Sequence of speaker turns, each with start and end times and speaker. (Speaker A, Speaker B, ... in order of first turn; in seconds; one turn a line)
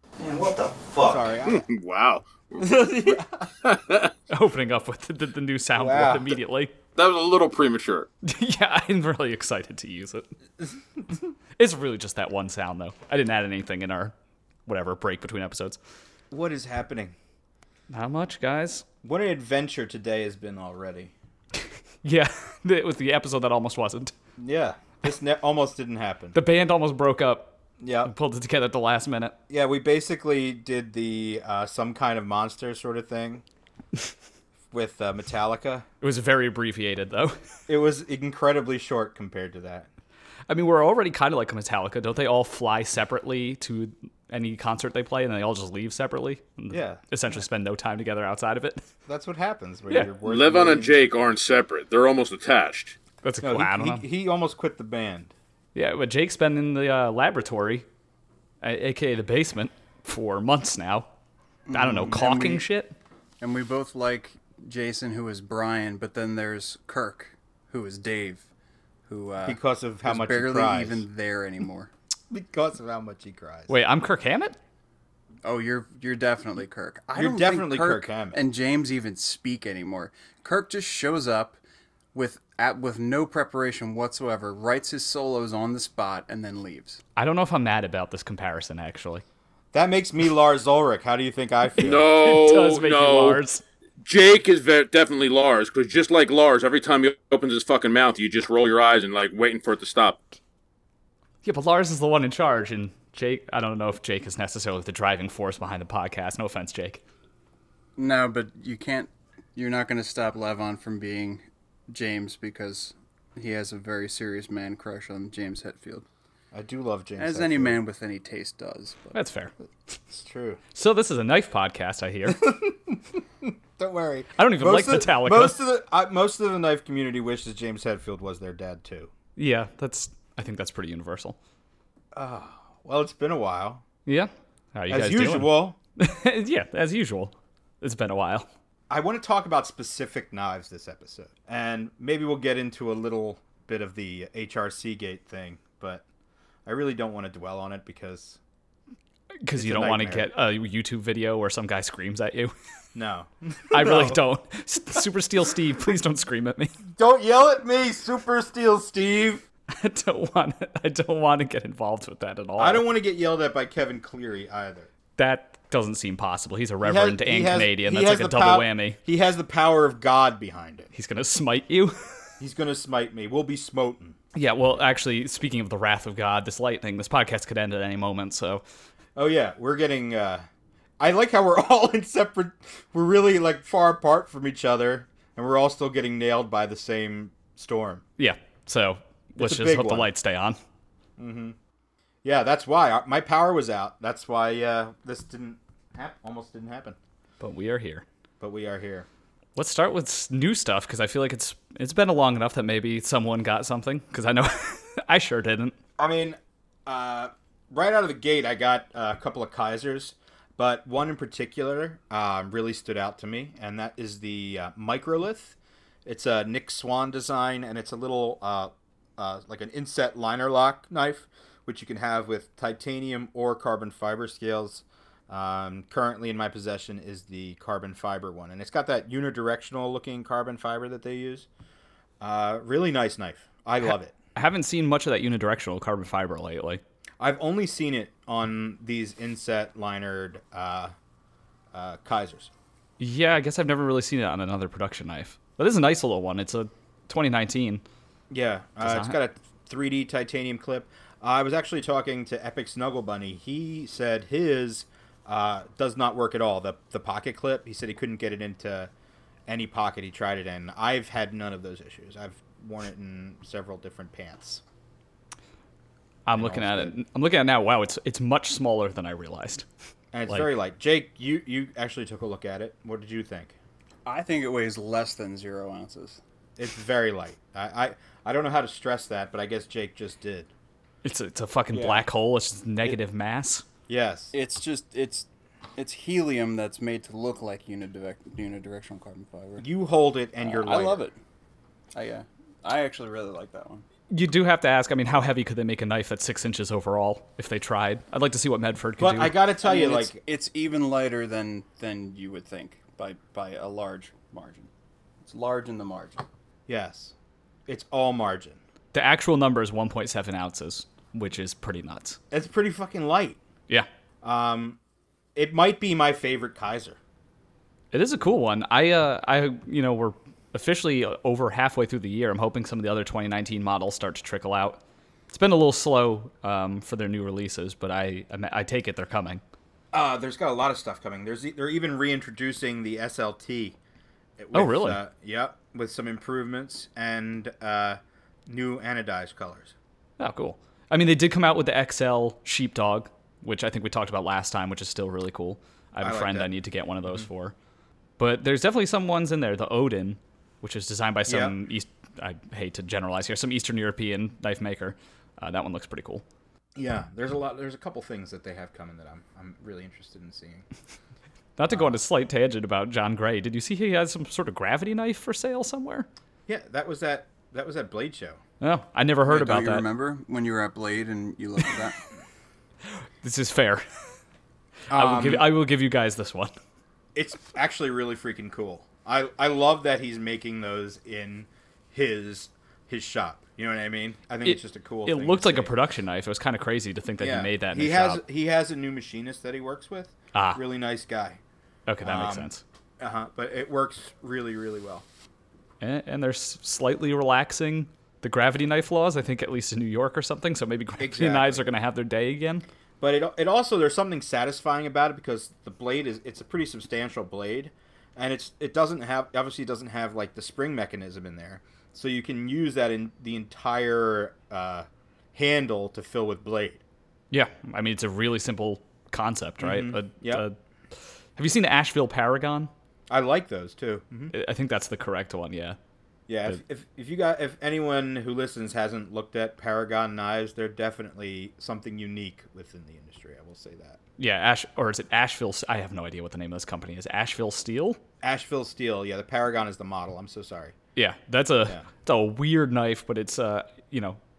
Speaker A: 0.2-1.0
Speaker B: 1.0-1.7
Speaker C: 1.4-3.0
Speaker B: 2.6-3.5
Speaker C: 3.6-4.1
Speaker A: 4.3-6.7
Speaker B: 5.7-6.4
Speaker C: 7.0-8.1
Speaker A: 8.2-10.3
Speaker B: 10.6-11.3
Speaker A: 11.6-14.1
Speaker A: 14.7-15.8
Speaker B: 16.3-17.1
Speaker A: 17.9-18.8
Speaker B: 19.0-21.1
Speaker A: 22.0-24.1
Speaker B: 24.4-26.4
Speaker A: 26.3-29.3
Speaker B: 27.8-28.1
Speaker B: 29.5-33.4
Speaker B: 34.7-35.9
Speaker A: 36.0-37.4
Speaker B: 37.7-39.9
Speaker A: 40.5-48.8
Speaker B: 46.7-47.4
Speaker B: 49.1-51.0
Speaker C: 50.2-53.0
Speaker A: 53.2-54.0
Speaker B: 53.4-55.3
Speaker A: 55.7-57.9
Speaker A: 58.6-61.1
Speaker D: 61.7-62.6
Speaker A: 61.7-62.9
Speaker D: 63.4-68.5
Speaker D: 69.1-71.9
Speaker B: 69.4-71.0
Speaker B: 72.3-73.8
Speaker A: 73.7-74.6
Speaker D: 75.4-81.6
Speaker B: 77.1-78.4
Speaker D: 82.1-87.0
Speaker A: 87.2-89.2
Speaker B: 89.7-92.0
Speaker C: 91.8-93.4
Speaker A: 91.9-93.6
Speaker C: 94.0-100.4
Speaker A: 101.4-107.0
Speaker D: 108.0-116.0
Speaker B: 116.5-117.8
Speaker D: 117.2-119.2
Speaker A: 119.1-119.5
Speaker B: 120.1-120.6
Speaker A: 120.7-122.4
Speaker B: 122.3-129.1
Speaker A: 124.4-125.6
Speaker A: 129.3-131.4
Speaker B: 132.1-133.8
Speaker A: 134.1-138.5
Speaker B: 134.9-135.8
Speaker B: 138.9-146.0
Speaker B: 146.7-148.4
Speaker A: 149.4-152.5
Speaker B: 149.6-150.3
Speaker B: 152.9-154.2
Speaker A: 153.7-156.8
Speaker B: 156.9-159.4
Speaker A: 159.7-162.8
Speaker B: 162.6-164.9
Speaker A: 165.2-169.0
Speaker B: 166.8-170.9
Speaker A: 170.9-172.2
Speaker B: 172.4-174.2
Speaker A: 174.3-178.6
Speaker B: 179.1-180.4
Speaker B: 181.0-188.0
Speaker A: 188.2-190.6
Speaker B: 189.4-190.1
Speaker B: 191.2-191.6
Speaker B: 192.2-197.0
Speaker A: 197.4-198.0
Speaker B: 198.4-199.1
Speaker A: 199.6-205.7
Speaker B: 206.0-231.5
Speaker B: 232.2-234.1
Speaker A: 234.3-236.8
Speaker B: 237.2-240.9
Speaker B: 241.7-242.5
Speaker A: 243.0-247.8
Speaker B: 248.3-258.9
Speaker A: 248.8-249.2
Speaker B: 259.5-264.6
Speaker A: 266.2-269.6
Speaker B: 266.4-266.9
Speaker B: 270.1-273.6
Speaker D: 274.1-276.2
Speaker B: 276.6-280.5
Speaker A: 281.0-283.6
Speaker B: 281.7-282.1
Speaker B: 283.9-284.3
Speaker D: 284.3-289.6
Speaker B: 289.6-291.0
Speaker D: 290.4-291.2
Speaker D: 291.9-293.9
Speaker A: 294.1-299.4
Speaker B: 299.0-300.2
Speaker D: 299.6-304.7
Speaker D: 305.2-306.2
Speaker B: 306.7-307.1
Speaker B: 307.7-308.6
Speaker A: 308.9-312.2
Speaker B: 312.3-313.4
Speaker B: 314.2-314.8
Speaker B: 315.3-317.0
Speaker A: 317.9-329.4
Speaker B: 329.9-333.8
Speaker B: 334.4-339.7
Speaker A: 334.5-335.0
Speaker A: 340.2-347.5
Speaker B: 346.0-346.5
Speaker B: 347.0-347.3
Speaker A: 348.2-356.2
Speaker B: 351.3-351.5
Speaker B: 356.7-360.7
Speaker A: 361.6-366.1
Speaker B: 361.7-362.0
Speaker B: 366.5-368.4
Speaker A: 368.6-369.9
Speaker D: 369.2-372.0
Speaker A: 373.0-373.9
Speaker B: 374.9-375.5
Speaker A: 374.9-376.5
Speaker B: 377.1-385.7
Speaker A: 384.4-388.2
Speaker B: 387.2-391.4
Speaker A: 390.3-390.6
Speaker A: 391.9-392.6
Speaker B: 392.0-395.1
Speaker A: 395.8-402.6
Speaker B: 401.0-401.7
Speaker B: 403.0-416.8
Speaker A: 417.3-420.6
Speaker B: 419.6-420.4
Speaker A: 421.4-422.7
Speaker B: 423.1-424.3
Speaker A: 424.3-425.8
Speaker B: 426.3-434.0
Speaker A: 434.2-438.0
Speaker B: 438.2-440.7
Speaker A: 440.9-444.2